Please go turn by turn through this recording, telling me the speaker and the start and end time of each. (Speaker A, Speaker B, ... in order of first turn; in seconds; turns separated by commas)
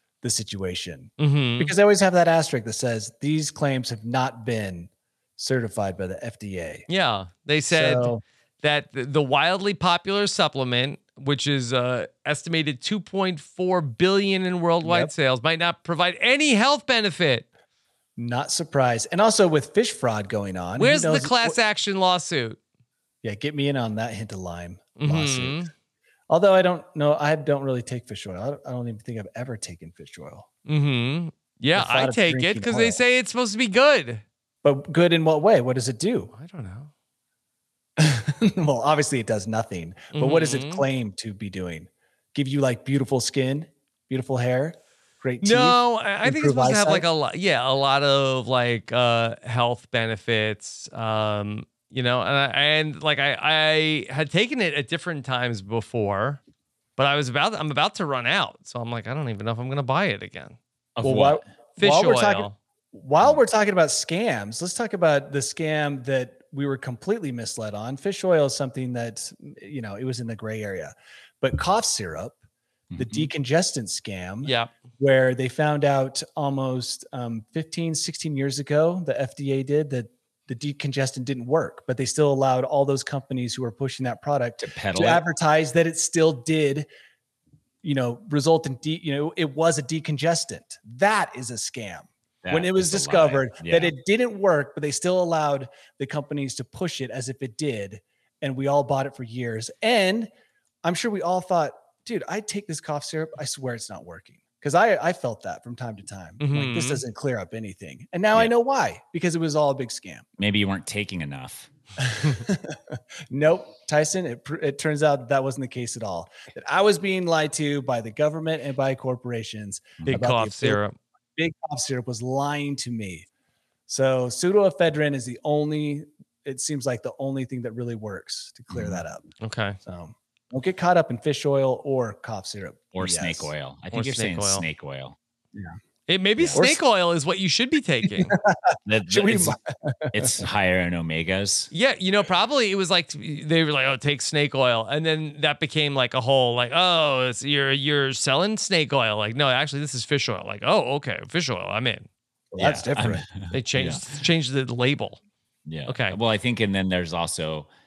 Speaker A: 0.2-6.8, Speaker B: 1.2-1.7, Speaker B: 6.9-17.5, Speaker A: 7.7-8.2, Speaker A: 14.8-15.1, Speaker A: 18.2-21.6, Speaker B: 20.8-22.6, Speaker A: 23.2-25.7, Speaker B: 25.0-25.7, Speaker A: 26.3-30.5, Speaker B: 30.6-34.2, Speaker A: 31.7-33.0, Speaker A: 34.6-36.3, Speaker B: 36.3-36.9, Speaker A: 38.0-47.1, Speaker B: 40.1-40.8, Speaker B: 45.4-56.4, Speaker B: 57.0-60.6, Speaker C: 61.0-61.4, Speaker A: 61.0-72.4, Speaker B: 61.8-62.5, Speaker C: 72.9-73.3, Speaker A: 73.0-86.9, Speaker B: 74.4-74.7, Speaker C: 84.6-85.2, Speaker A: 87.8-100.3, Speaker C: 92.4-93.9, Speaker A: 100.8-110.2, Speaker B: 106.4-107.0, Speaker C: 110.4-111.7, Speaker A: 112.0-120.8, Speaker B: 120.0-121.0, Speaker A: 121.3-123.3, Speaker A: 123.9-129.3, Speaker C: 128.7-129.0, Speaker B: 129.4-129.8, Speaker A: 129.8-133.5, Speaker C: 132.9-135.2, Speaker B: 133.9-134.7, Speaker B: 136.1-138.4, Speaker A: 136.5-136.8, Speaker A: 138.1-140.4, Speaker C: 138.8-139.6, Speaker C: 140.1-141.7, Speaker B: 141.7-152.1, Speaker C: 152.5-154.1, Speaker A: 152.6-153.2, Speaker B: 153.5-155.2, Speaker C: 155.7-157.7, Speaker B: 155.9-156.2